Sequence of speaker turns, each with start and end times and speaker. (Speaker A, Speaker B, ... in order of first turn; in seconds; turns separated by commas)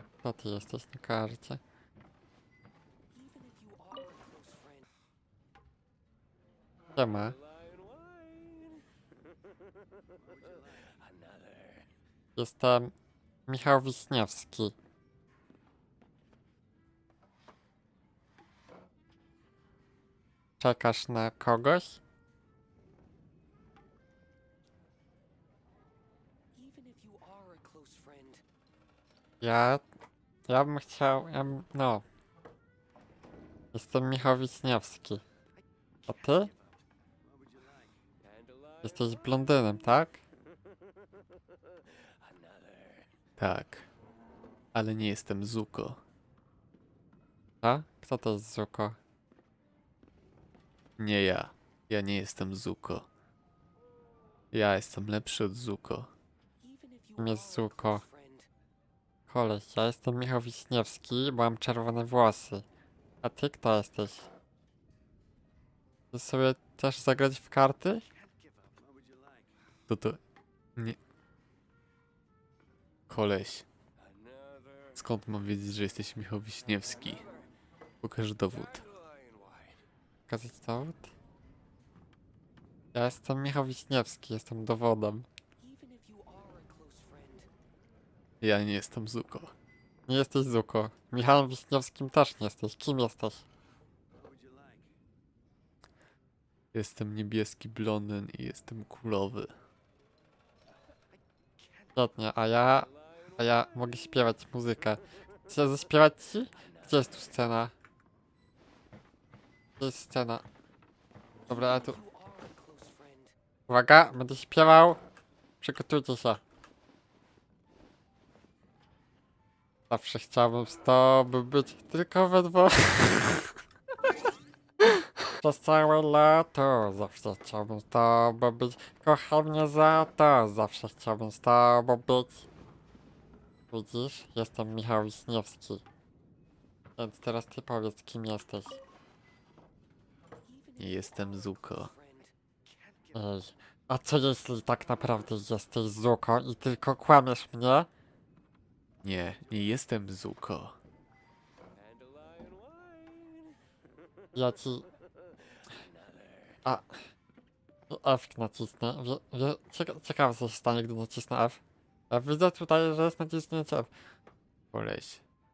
Speaker A: 0.2-1.6, Speaker B: 3.2-4.8, Speaker A: 7.0-7.4, Speaker B: 8.1-8.5, Speaker A: 12.4-12.9, Speaker A: 13.5-14.8, Speaker A: 20.6-22.0, Speaker B: 26.6-28.4, Speaker A: 29.4-29.8, Speaker A: 30.5-32.0, Speaker A: 33.7-35.2, Speaker A: 36.1-36.5, Speaker A: 38.8-40.2, Speaker C: 43.4-43.9, Speaker C: 44.7-46.0, Speaker A: 47.6-49.0, Speaker C: 51.0-53.1, Speaker C: 54.5-56.1, Speaker B: 56.7-58.4, Speaker A: 57.2-58.0, Speaker A: 59.3-62.6, Speaker A: 63.2-64.3, Speaker A: 66.1-68.0, Speaker C: 69.9-70.2, Speaker C: 73.1-73.7, Speaker C: 74.9-77.2, Speaker C: 78.0-78.9, Speaker A: 80.3-81.1, Speaker A: 82.9-85.3, Speaker B: 85.6-87.5, Speaker C: 88.4-89.5, Speaker A: 90.1-93.5, Speaker C: 96.7-99.5, Speaker A: 102.0-107.7, Speaker A: 109.8-110.5, Speaker A: 111.5-112.0, Speaker B: 111.8-113.3, Speaker A: 113.7-115.0, Speaker A: 115.6-116.4, Speaker A: 119.9-123.6, Speaker A: 124.8-132.5, Speaker A: 133.7-135.8, Speaker A: 137.0-138.8, Speaker B: 140.6-142.3, Speaker C: 140.8-141.9, Speaker A: 143.1-147.9, Speaker C: 149.0-150.8, Speaker B: 152.3-153.2, Speaker A: 154.3-154.8, Speaker A: 156.7-156.9, Speaker A: 157.9-163.9, Speaker C: 164.7-165.2